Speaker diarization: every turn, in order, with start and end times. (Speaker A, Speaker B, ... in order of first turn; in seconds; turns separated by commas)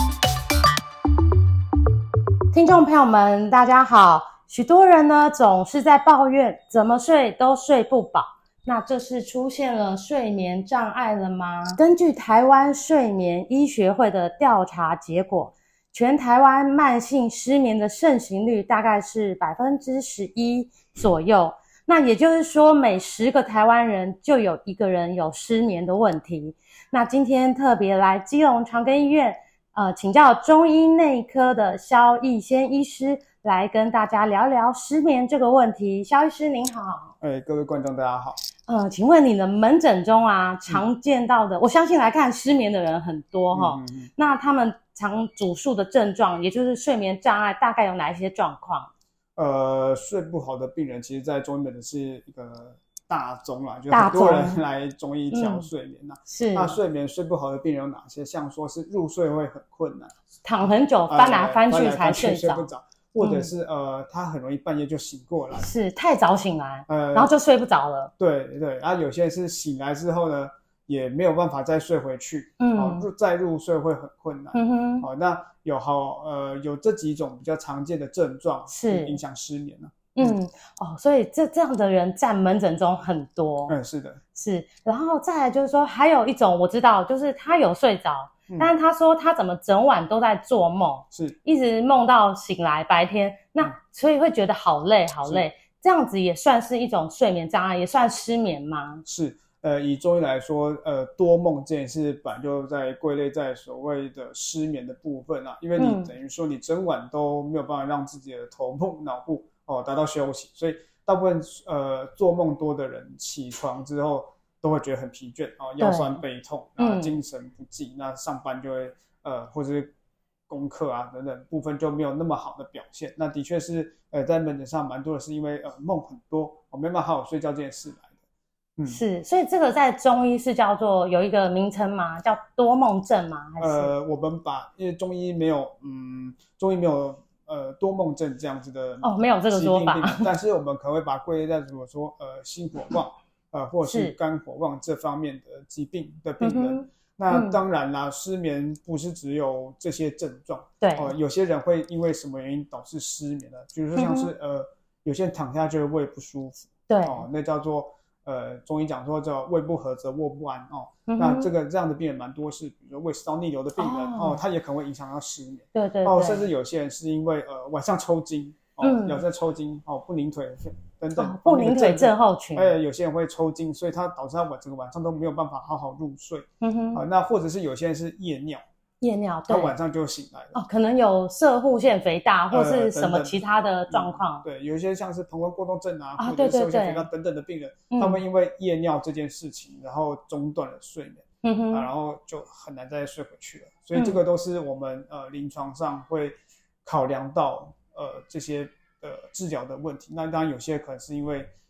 Speaker A: 2.5-37.1, Speaker B: 37.2-38.4, Speaker A: 38.7-48.9, Speaker B: 43.5-44.1, Speaker B: 49.4-60.1, Speaker A: 53.9-54.6, Speaker A: 55.3-55.7, Speaker A: 56.3-56.8, Speaker A: 60.4-63.5, Speaker B: 61.1-65.7, Speaker A: 65.6-68.1, Speaker B: 66.9-67.3, Speaker B: 68.2-80.4, Speaker A: 72.6-73.1, Speaker A: 74.5-75.1, Speaker A: 78.7-79.2, Speaker A: 80.1-83.7, Speaker B: 83.7-84.2, Speaker A: 84.3-99.0, Speaker B: 99.0-119.9, Speaker A: 105.8-106.1, Speaker A: 115.8-116.2, Speaker A: 116.8-117.2, Speaker B: 120.5-128.2, Speaker B: 128.8-129.0, Speaker A: 128.8-133.9, Speaker B: 133.6-178.6, Speaker A: 139.0-140.3, Speaker A: 143.8-144.1, Speaker A: 146.4-147.6, Speaker A: 150.8-151.1, Speaker A: 153.9-154.3, Speaker A: 156.9-157.2, Speaker A: 161.1-161.5, Speaker A: 163.8-164.4, Speaker A: 165.7-166.5, Speaker A: 168.8-169.2, Speaker A: 171.1-172.7, Speaker A: 176.6-177.0, Speaker A: 179.0-179.7, Speaker B: 179.5-180.6, Speaker A: 180.5-184.4, Speaker B: 182.5-201.5, Speaker A: 186.2-187.1, Speaker A: 187.9-188.2, Speaker A: 191.4-191.9, Speaker A: 193.9-194.2